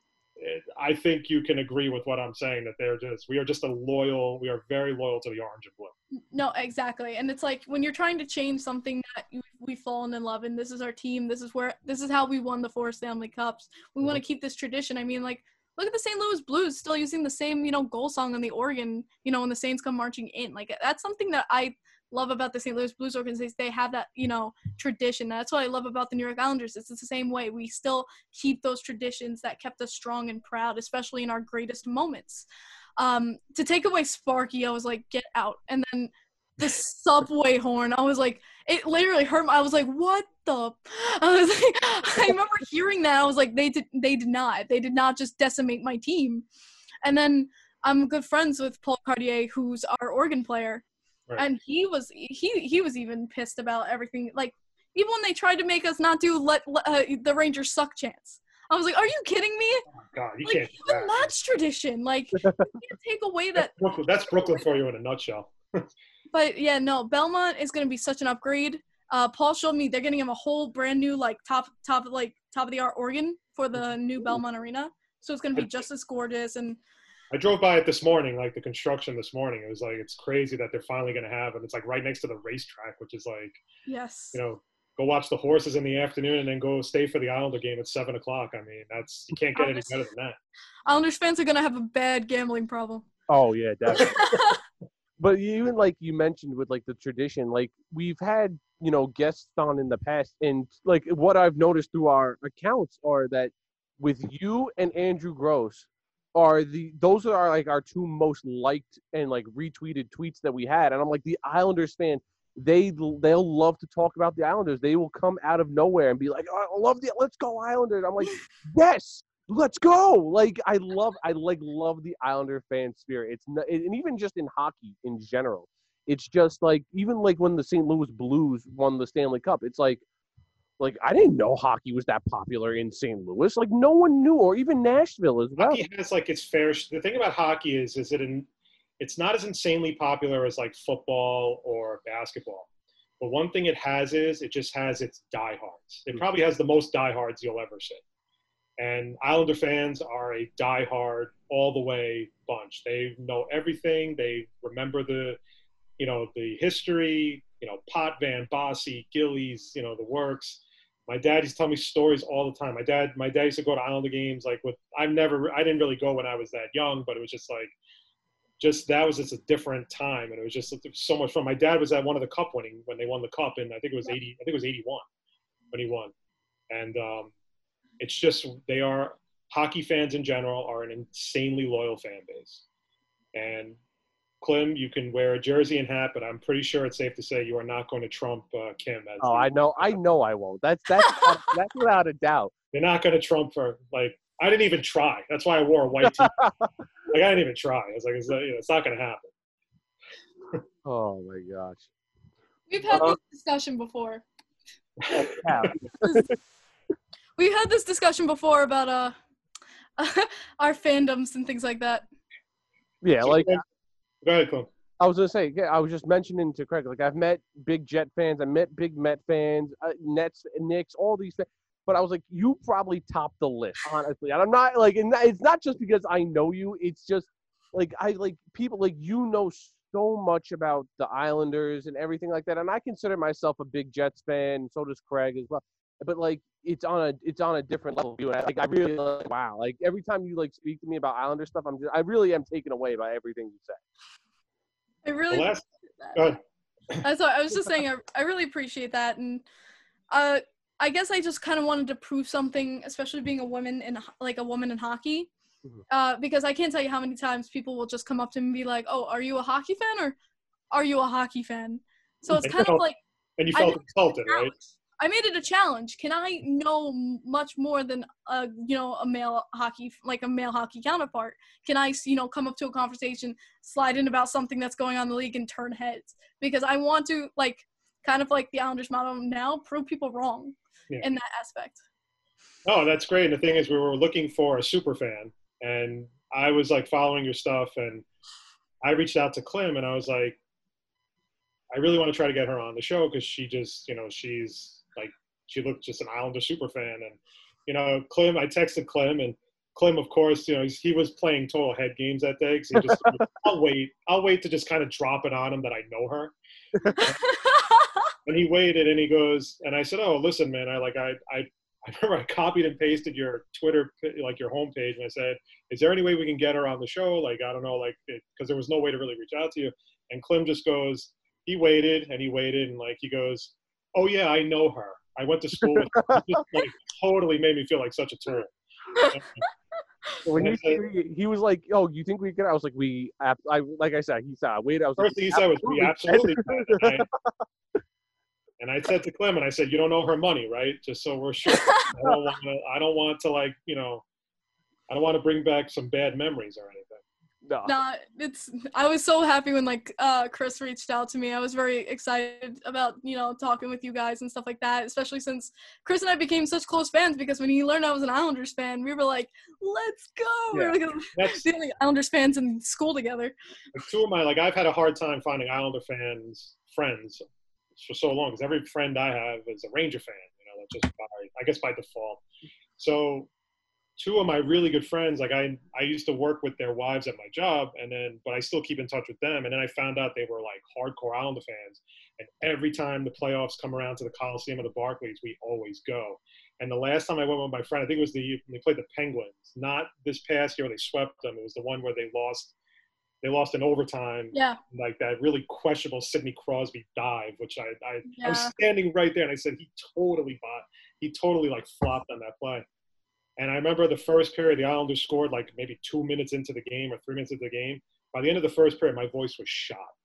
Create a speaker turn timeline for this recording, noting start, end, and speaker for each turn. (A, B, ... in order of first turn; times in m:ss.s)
0:00.4-0:05.9 A
0:06.1-0:32.5 B
0:33.0-0:46.4 B
0:47.0-0:50.8 B
0:51.4-0:59.8 B
1:00.1-1:01.3 A
1:00.4-1:04.7 B
1:03.7-1:05.9 A
1:06.3-1:16.8 B
1:17.3-1:23.6 A
1:23.8-1:24.4 B
1:24.3-1:30.4 A
1:29.5-1:30.0 B
1:30.9-1:33.1 B
1:33.3-1:34.1 C
1:33.9-1:34.6 B
1:35.2-2:10.0 C
2:10.8-2:15.8 C
2:15.6-2:18.5 A
2:19.0-2:22.7 A
2:23.2-2:28.0 A
2:28.8-2:35.4 A
2:36.0-2:47.7 A
2:48.6-2:55.0 A
2:55.7-2:56.1 A
2:56.7-2:57.3 A
2:58.0-3:02.6 A
3:03.3-3:03.8 A
3:04.4-3:09.9 A
3:09.2-3:12.5 C
3:12.7-3:16.4 A
3:16.0-3:16.7 C
3:17.1-3:19.3 A
3:20.8-3:21.9 C
3:22.7-3:24.2 B
3:22.9-3:23.2 C
3:25.0-3:25.8 A
3:25.1-3:26.3 C
3:26.0-3:26.2 B
3:27.4-3:29.1 B
3:30.0-3:32.0 B
3:33.0-3:33.6 C
3:33.2-3:33.6 A
3:34.2-3:34.7 A
3:35.0-4:03.8 C
4:05.0-4:06.4 B
4:05.3-4:05.6 A
4:07.0-4:09.4 B
4:10.1-4:15.3 B
4:15.9-4:20.2 B
4:20.7-4:23.0 B
4:22.4-4:24.5 A
4:23.5-4:41.8 B
4:42.6-4:48.0 A
4:48.8-4:50.4 A
4:51.7-5:06.3 A
5:02.7-5:03.2 C
5:06.9-5:08.1 B
5:08.2-5:28.6 A
5:25.6-5:26.4 C
5:28.9-5:29.5 B
5:29.1-5:29.4 A
5:30.2-5:30.8 A
5:30.2-5:37.4 C
5:35.0-5:37.1 A
5:38.6-5:44.0 A
5:41.5-5:41.9 B
5:44.9-5:47.0 A
5:47.4-5:47.7 C
5:47.6-6:03.3 B
6:01.1-6:01.4 A
6:03.7-6:07.2 A
6:07.8-6:12.2 A
6:12.8-6:13.3 A
6:14.0-6:32.5 A
6:33.2-6:42.6 A
6:34.3-6:34.6 B
6:38.1-6:38.5 B
6:43.4-6:49.9 A